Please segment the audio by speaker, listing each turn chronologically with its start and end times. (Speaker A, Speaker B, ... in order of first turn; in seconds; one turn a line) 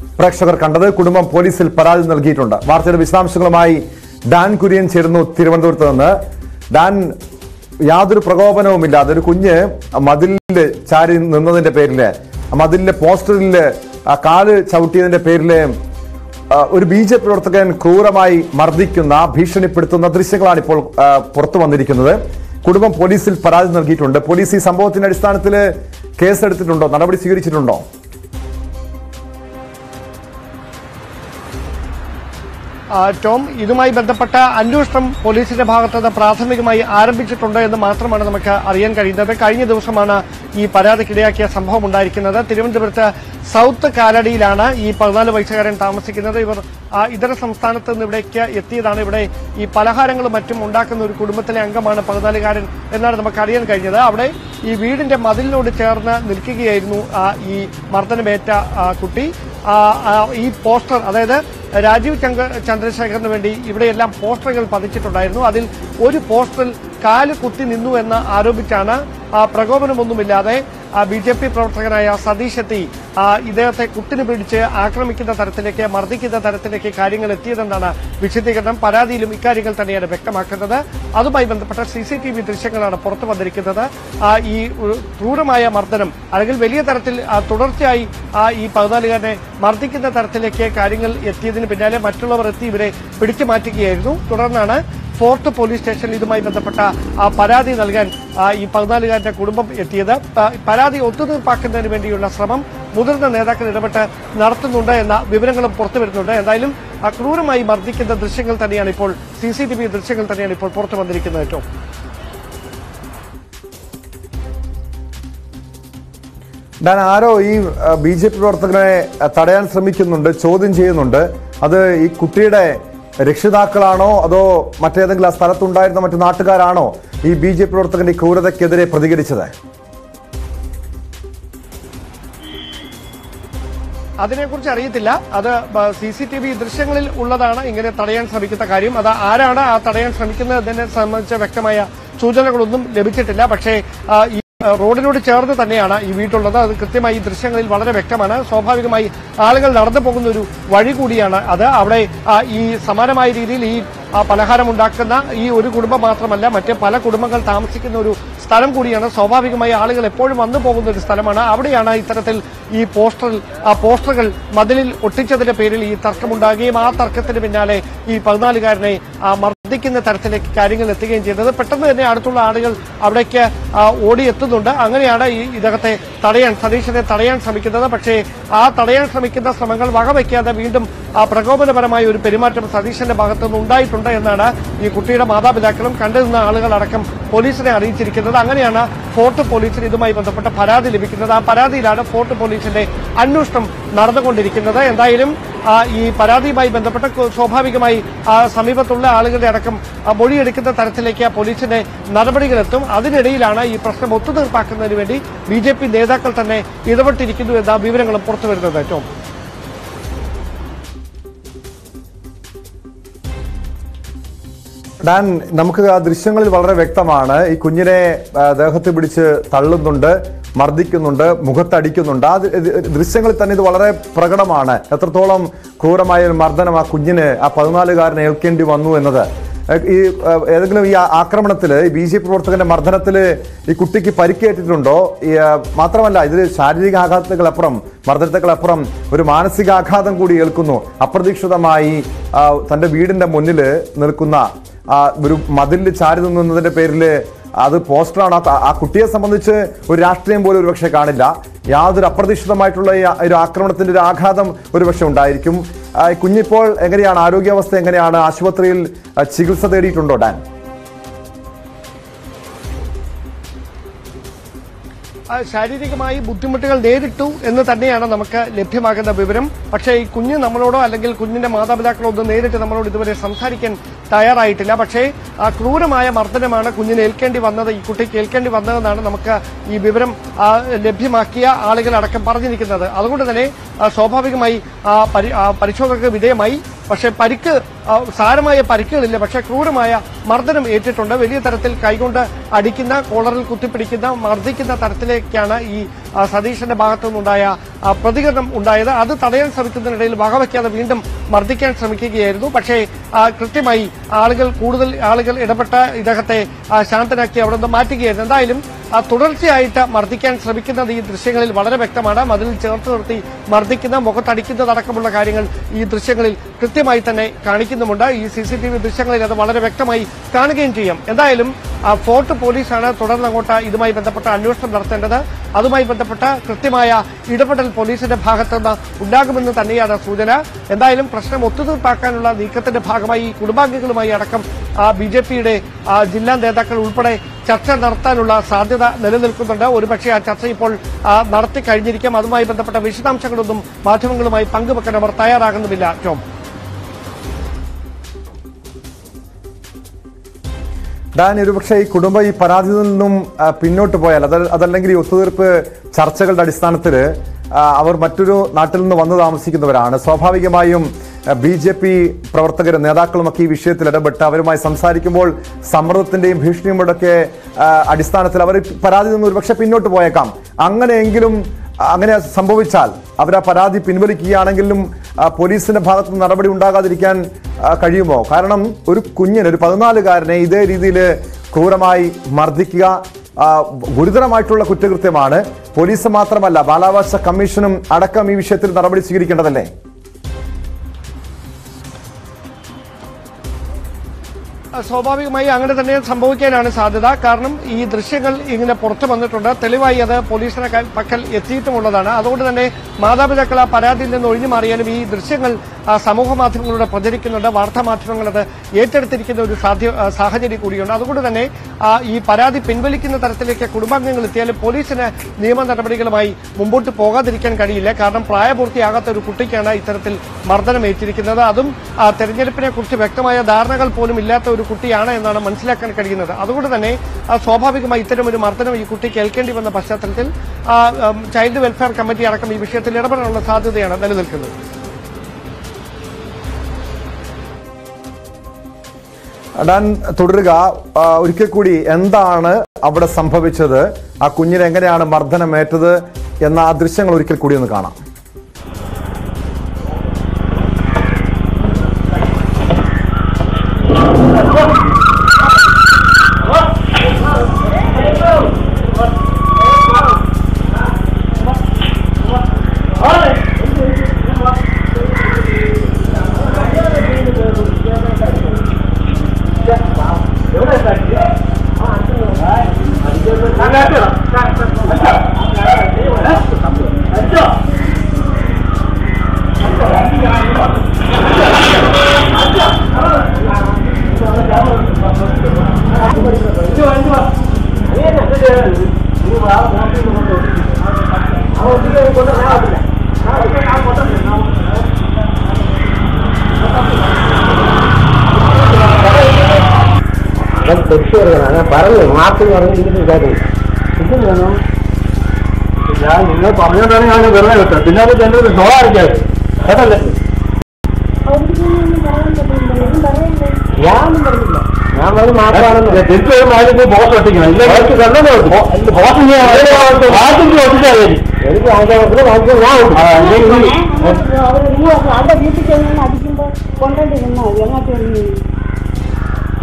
Speaker A: 0.2-6.1
Speaker A: 6.7-7.2
Speaker A: 7.8-15.7
Speaker A: 16.5-27.8
Speaker B: 33.0-111.6
Speaker A: 116.8-129.5
Speaker B: 134.2-209.1
Speaker A: 215.0-260.4
Speaker B: 265.3-346.2
Speaker A: 351.2-389.7
Speaker B: 394.8-434.5
Speaker A: 439.6-448.0
Speaker C: 463.1-463.5
Speaker D: 466.6-468.6
Speaker C: 469.6-471.3
Speaker D: 471.8-472.5
Speaker C: 472.4-475.4
Speaker D: 473.3-473.8
Speaker D: 475.9-476.9
Speaker C: 476.0-476.4
Speaker C: 477.1-477.6
Speaker C: 479.6-481.4
Speaker C: 482.4-483.4
Speaker C: 484.1-486.0
Speaker D: 486.0-486.7
Speaker C: 486.6-487.3
Speaker D: 487.9-488.3
Speaker C: 488.1-492.6
Speaker D: 491.5-492.8
Speaker C: 493.2-494.9
Speaker D: 498.8-499.5
Speaker D: 500.6-503.5
Speaker C: 504.0-504.6
Speaker C: 505.8-510.2
Speaker E: 511.3-513.6
Speaker D: 513.8-516.0
Speaker C: 515.5-521.2
Speaker D: 517.6-518.6
Speaker D: 519.4-520.2
Speaker D: 521.4-523.1
Speaker C: 522.9-524.2
Speaker E: 523.1-528.4